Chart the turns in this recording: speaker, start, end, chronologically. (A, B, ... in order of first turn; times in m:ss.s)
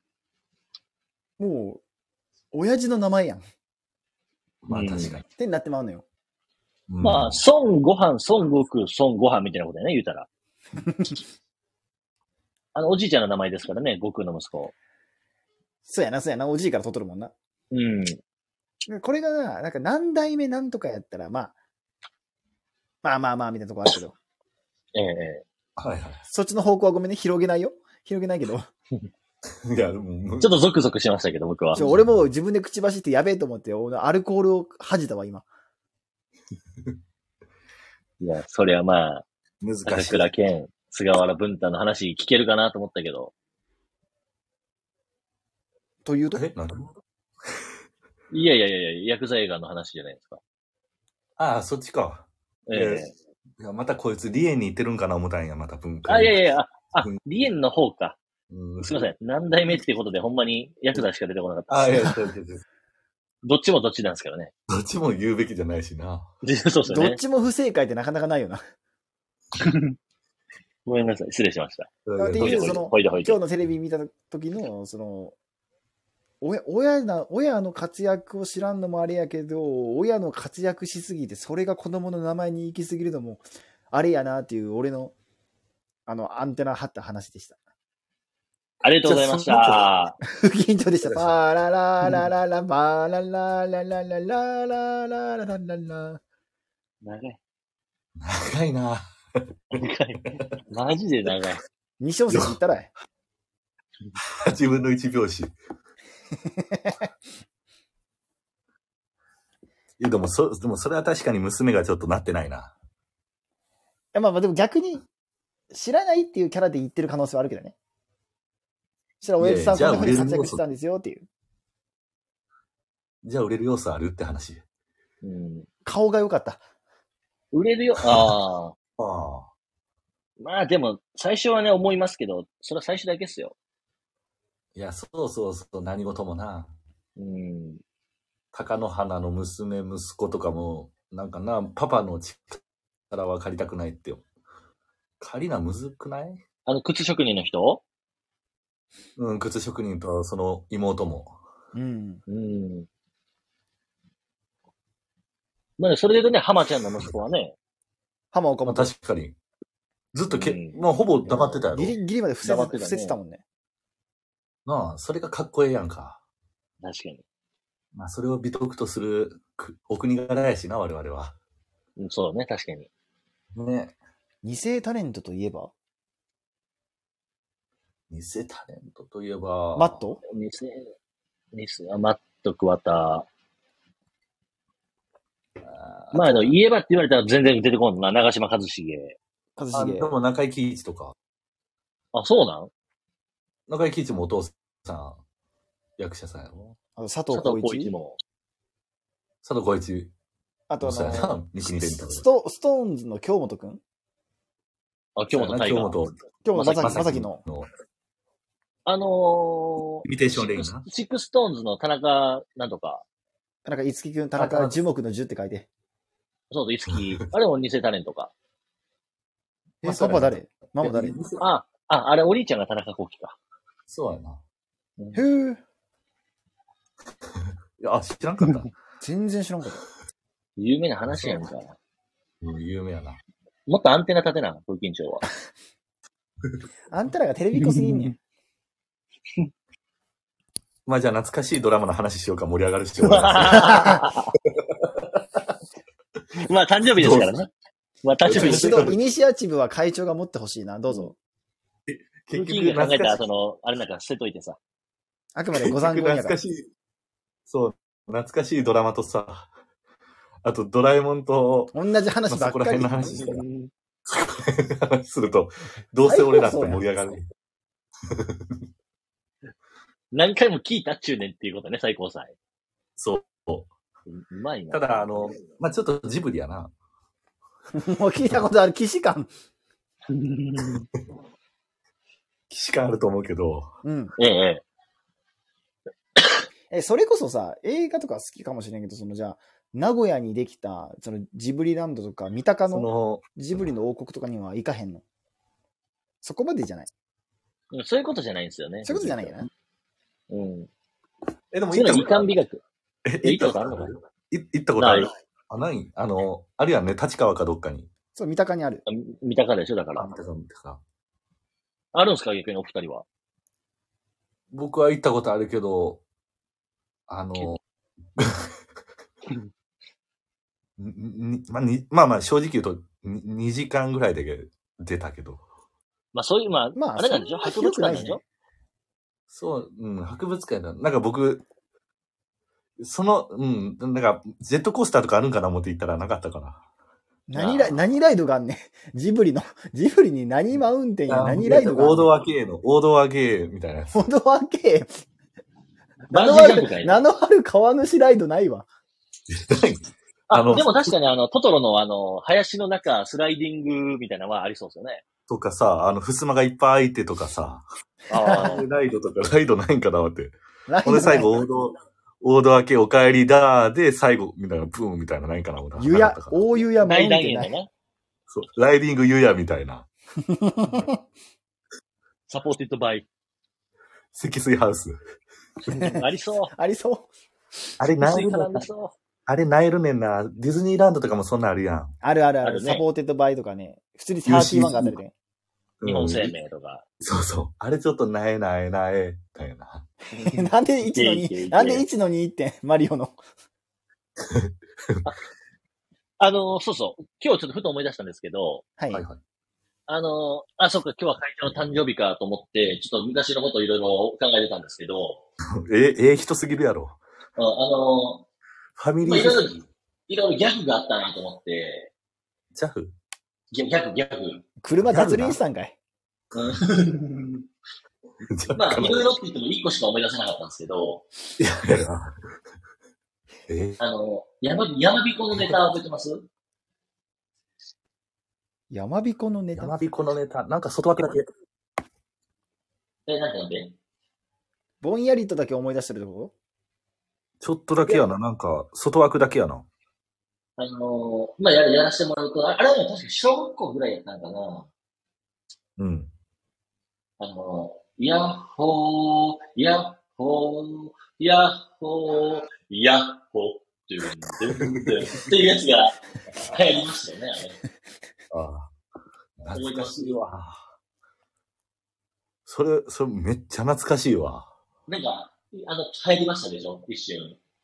0:01.4-0:01.8 A
0:02.5-0:03.4 A
0:04.6-0:05.2 B
0:04.7-0:05.2 C
0:05.3-0:06.0 A
0:06.9-0:07.4 B
0:07.0-0:10.3 C
0:10.8-0:11.2 A
0:12.8-0:14.7 C
0:15.8-0:17.3 A
0:17.7-0:18.2 C
0:18.9-0:21.5 A
0:23.0-0:24.2 A
0:25.0-0:25.4 C
0:25.8-0:26.2 B
0:26.3-0:28.7 A
0:29.6-0:30.6 B
0:30.4-0:31.8 C
0:31.8-0:35.5 A
0:31.8-0:32.1 B
0:38.2-0:39.2 C
0:39.6-0:40.3 B
0:39.9-0:43.3 C
0:46.0-0:46.4 A
0:46.3-0:46.9 B
0:48.3-0:50.4 C
0:51.4-0:53.0 B
0:52.7-0:53.1 C
0:53.6-0:56.4 B
0:56.1-0:58.2 C
0:58.5-0:59.1 B
0:58.8-1:02.2 C
1:01.7-1:02.6 B
1:03.4-1:04.5 C
1:04.7-1:06.3 B
1:06.4-1:07.2 C
1:06.9-1:08.6 A
1:09.6-1:10.0 C
1:10.9-1:13.4 C
1:12.1-1:12.8 B
1:12.2-1:15.4 A
1:16.4-1:25.1 A
1:26.1-1:27.6 A
1:28.8-1:30.2 C
1:29.0-1:29.9 B
1:30.3-1:36.2 A
1:31.0-1:31.3 B
1:37.0-1:37.4 C
1:38.2-1:39.8 B
1:39.7-1:41.6 C
1:42.0-1:42.9 A
1:42.3-1:42.6 B
1:44.4-1:45.5 B
1:46.4-1:47.1 A
1:50.0-1:52.7 B
1:54.1-1:55.1 A
1:55.7-1:57.8 A
1:59.2-2:01.3 A
1:59.4-2:00.6 B
2:03.2-2:04.6 B
2:05.2-2:05.7 C
2:05.8-2:06.6 A
2:07.5-2:08.8 C
2:09.0-2:09.5 B
2:10.4-2:13.6 C
2:14.8-2:16.8 B
2:17.2-2:17.8 C
2:18.5-2:24.2 B
2:25.2-2:26.4 B
2:26.7-2:27.8 C
2:29.2-2:31.3 B
2:31.8-2:32.2 A
2:32.3-2:32.9 C
2:35.8-2:37.6 C
2:38.3-2:38.9 A
2:38.7-2:39.4 B
2:40.1-2:42.0 B
2:40.3-2:41.6 C
2:41.7-2:43.4 A
2:42.4-2:43.2 C
2:44.7-2:46.2 B
2:46.8-2:47.2 C
2:47.9-2:51.4 B
2:52.0-2:52.9 C
2:53.6-2:53.9 B
2:54.4-2:55.7 A
2:58.1-3:00.0 B
2:59.8-3:00.2 A
3:00.3-3:00.9 C
3:01.5-3:03.3 C
3:05.6-3:06.5 B
3:06.1-3:09.2 C
3:09.6-3:10.1 A
3:09.7-3:11.2 B
3:12.1-3:12.7 C
3:13.7-3:15.2 B
3:16.0-3:16.8 B
3:17.0-3:17.9 A
3:17.3-3:18.2 C
3:19.4-3:20.1 B
3:20.7-3:23.8 A
3:20.8-3:22.2 B
3:25.2-3:26.0 C
3:25.3-3:27.7 B
3:26.4-3:27.4 A
3:26.6-3:27.0 C
3:28.9-3:33.0 C
3:30.0-3:30.9 B
3:33.6-3:35.7 A
3:34.4-3:34.8 B
3:36.5-3:38.3 C
3:39.8-3:41.2 A
3:39.8-3:41.4 B
3:41.4-3:43.4 C
3:43.9-3:44.4 B
3:45.1-3:45.6 A
3:47.8-3:48.7 B
3:49.0-3:49.8 A
3:50.6-3:51.8 C
3:51.1-3:51.5 B
3:52.4-3:53.2 B
3:53.7-3:55.3 C
3:56.9-3:58.2 A
3:57.6-3:58.2 C
4:00.9-4:04.0 B
4:03.0-4:04.3 C
4:06.4-4:07.5 C
4:07.0-4:07.3 B
4:08.0-4:08.9 C
4:08.3-4:09.0 B
4:08.3-4:11.2 A
4:11.9-4:13.2 B
4:12.3-4:14.6 C
4:15.4-4:16.4 A
4:15.6-4:16.7 B
4:17.5-4:19.5 B
4:20.4-4:21.7 B
4:21.7-4:23.2 A
4:22.3-4:23.4 B
4:23.2-4:23.7 C
4:24.1-4:27.2 B
4:26.0-4:26.8 A
4:28.1-4:28.6 B
4:30.1-4:32.3 C
4:33.0-4:33.7 B
4:34.1-4:35.4 C
4:34.7-4:36.7 B
4:37.7-4:39.3 A
4:40.1-4:40.9 C
4:42.5-4:43.7 B
4:43.8-4:44.2 A
4:44.2-4:44.6 C
4:46.7-4:55.0 A
4:52.7-4:53.3 B
4:56.2-4:56.9 A
4:57.7-4:59.5 C
4:58.8-4:59.5 A
5:00.3-5:00.7 C
5:01.5-5:02.3 B
5:01.7-5:02.6 C
5:03.0-5:07.9 B
5:03.2-5:03.9 C
5:04.8-5:05.1 C
5:08.2-5:08.8 A
5:08.9-5:10.2 C
5:10.0-5:10.8 B
5:11.9-5:13.0 C
5:14.5-5:16.0 B
5:17.1-5:17.6 B
5:18.2-5:18.5 B
5:20.8-5:25.4 B
5:26.1-5:28.2 C
5:26.8-5:28.2 A
5:29.3-5:31.4 B
5:32.8-5:36.6 B
5:37.3-5:42.1 A
5:37.4-5:37.8 C
5:41.1-5:44.1 B
5:43.9-5:44.9 A
5:46.1-5:47.0 C
5:46.1-5:48.7 A
5:49.3-5:50.9 B
5:50.3-5:55.0 C
5:55.3-5:57.6 B
5:58.1-5:58.7 C
5:58.2-5:58.5 A
5:58.3-6:06.5 B
6:00.7-6:01.4 A
6:05.8-6:07.5 A
6:06.8-6:07.7 C
6:08.3-6:09.9 B
6:10.2-6:11.0 A
6:12.3-6:13.1 C
6:14.1-6:15.0 B
6:15.6-6:16.5 C
6:15.8-6:17.1 A
6:17.8-6:18.7 B
6:18.0-6:19.0 C
6:19.3-6:22.0 B
6:22.0-6:25.1 A
6:22.4-6:22.8 C
6:24.2-6:25.0 B
6:25.8-6:26.3 B
6:25.8-6:26.8 C
6:27.0-6:29.9 B
6:30.1-6:31.9 C
6:30.3-6:33.2 A
6:34.2-6:35.0 B
6:36.2-6:38.6 C
6:38.8-6:39.0 A
6:38.9-6:39.2 B
6:39.9-6:45.2 C
6:45.6-6:47.0 B
6:47.4-6:48.2 C
6:48.8-6:49.6 B
6:49.0-6:51.9 C
6:52.6-6:53.0 B
6:53.5-6:54.4 C
6:54.6-6:55.8 A
6:54.9-6:55.4 B
6:56.3-6:57.4 C
6:58.3-6:59.1 B
6:58.6-7:01.0 C
7:01.4-7:02.1 B
7:03.5-7:03.8 B
7:03.8-7:06.3 C
7:08.7-7:09.8 A
7:09.6-7:11.3 B
7:13.1-7:13.8 C
7:14.8-7:16.3 A
7:17.4-7:19.7 B
7:20.6-7:24.7 C
7:25.8-7:26.1 B
7:27.2-7:37.6 C
7:34.6-7:34.9 B
7:38.3-7:38.7 B
7:39.4-7:40.6 B
7:39.5-7:40.2 C
7:42.5-7:44.5 B
7:44.9-7:47.4 C